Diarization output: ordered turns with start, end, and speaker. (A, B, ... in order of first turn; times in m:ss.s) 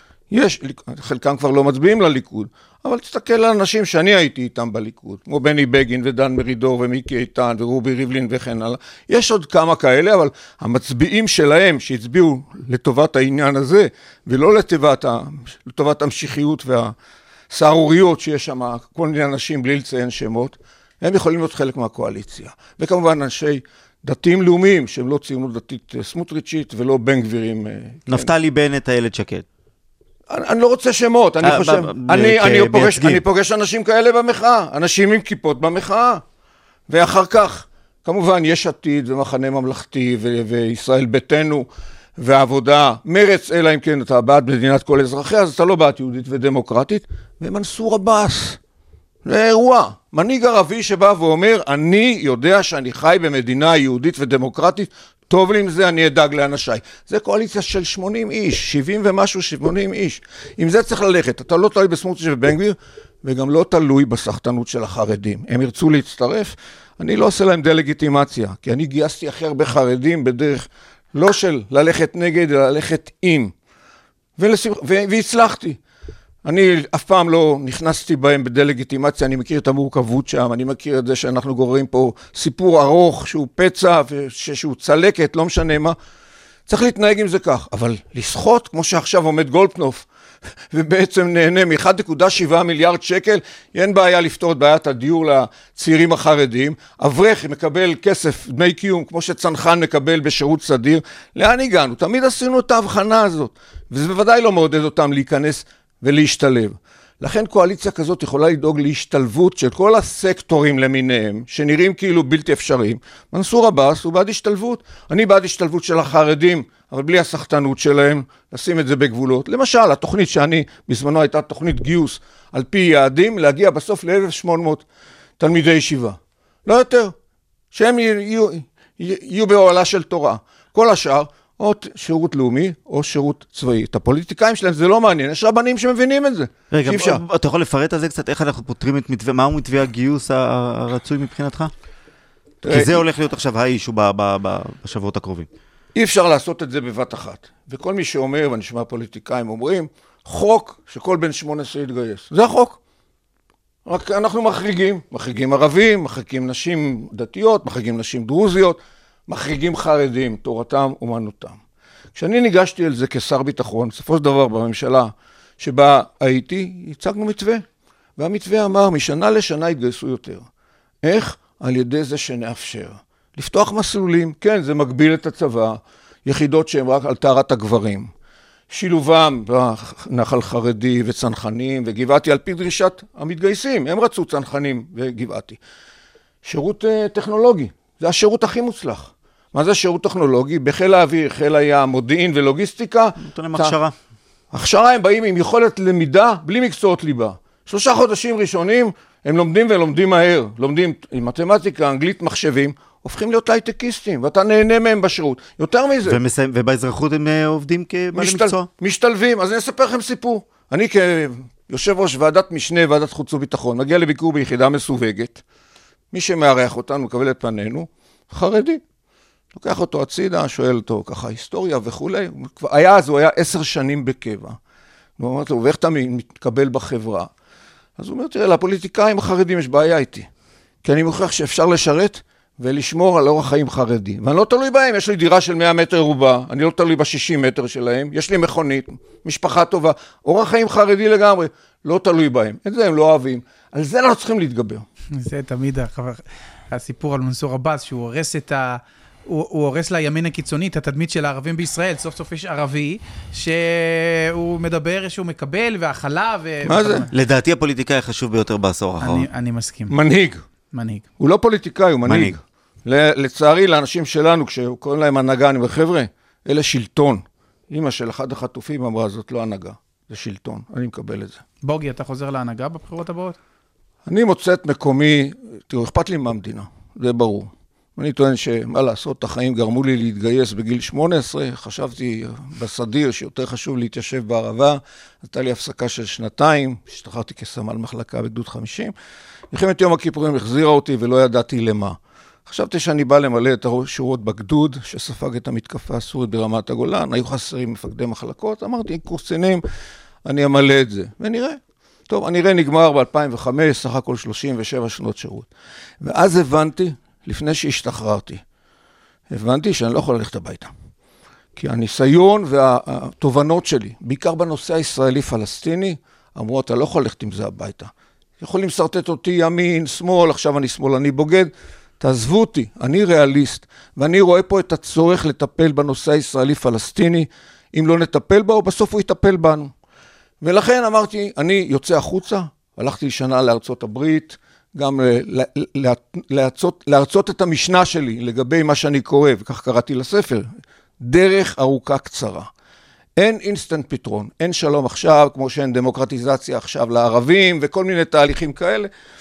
0:00.3-0:16.9 A
0:17.5-0:28.3 A
0:28.1-0:29.4 B
0:30.3-0:36.2 A
0:31.4-0:33.2 B
0:36.9-0:48.6 A
0:49.2-1:13.5 A
1:14.4-1:15.8 A
1:16.4-1:26.0 A
1:26.7-1:30.1 A
1:30.7-2:04.8 A
2:05.4-2:07.1 A
2:07.7-2:17.2 A
2:16.7-2:21.7 B
2:22.6-2:23.0 A
2:22.7-2:25.5 B
2:25.9-2:32.8 A
2:33.9-2:41.6 A
2:42.1-2:47.6 A
2:48.2-2:50.4 A
2:51.0-2:58.1 A
2:58.7-3:05.6 A
3:06.4-3:13.8 A
3:13.2-3:13.9 B
3:14.5-3:26.2 A
3:26.1-3:28.7 B
3:28.1-3:35.4 A
3:36.1-3:38.8 A
3:39.6-3:44.6 A
3:45.2-3:47.3 A
3:48.0-3:50.3 A
3:50.8-4:04.8 A
4:05.2-4:17.1 C
4:16.6-4:17.0 A
4:17.1-4:19.3 B
4:19.0-4:20.0 C
4:19.9-4:20.4 A
4:20.7-4:21.0 C
4:21.2-4:31.4 A
4:22.0-4:22.4 B
4:31.6-4:33.4 C
4:34.0-4:48.9 A
4:49.5-4:59.6 A
5:00.2-5:05.5 A
5:06.0-5:08.4 A
5:09.3-5:10.7 A
5:11.6-5:29.7 A
5:30.4-5:40.5 A
5:41.0-5:42.5 A
5:43.2-5:48.9 A